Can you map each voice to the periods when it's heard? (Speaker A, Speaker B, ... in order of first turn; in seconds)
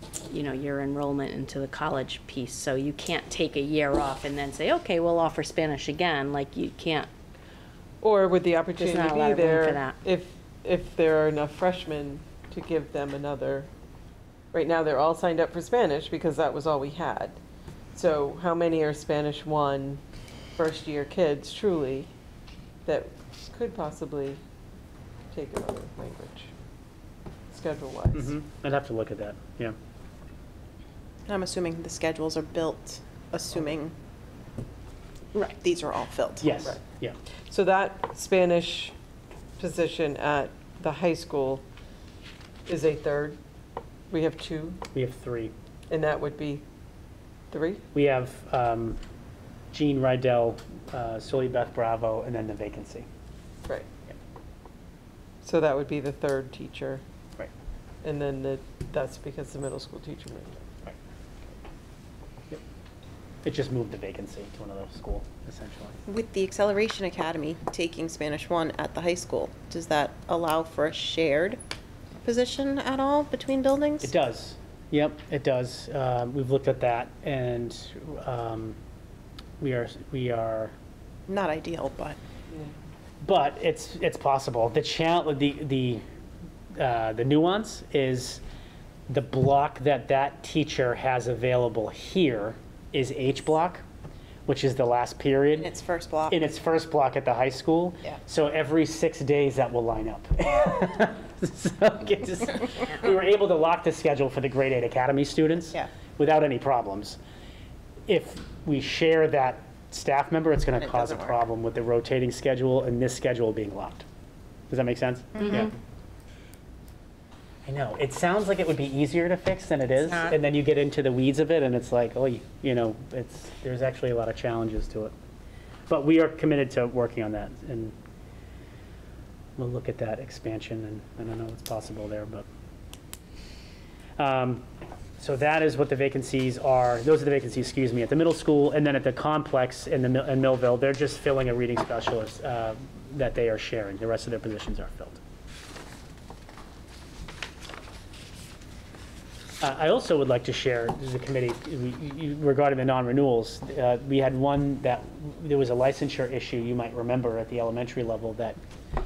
Speaker A: 0.3-7.1, 8.8-10.0
Speaker B: 8.0-13.7, 14.5-17.4, 17.9-20.0, 20.6-22.1, 22.8-24.4, 25.3-26.5, 27.5-28.3, 37.5-38.9, 39.6-41.6, 42.7-43.4, 44.1-44.8, 45.9-46.6, 47.5-47.9, 55.4-57.0, 58.0-60.8
Speaker C: 28.1-29.8, 36.4-37.2, 44.9-45.5, 47.9-49.0, 49.7-53.1, 63.4-66.0, 74.0-78.8, 79.6-80.7, 83.2-86.0, 86.7-88.4, 89.1-93.8, 94.5-95.7, 96.3-107.2, 108.1-114.1, 114.7-115.7, 117.6-125.1, 125.9-127.9, 129.6-132.5, 134.2-134.6, 135.2-145.2, 149.6-158.6
Speaker D: 31.3-33.9, 35.4-36.7, 66.0-71.6, 72.2-74.1, 81.3-82.2, 95.6-96.4, 110.8-111.4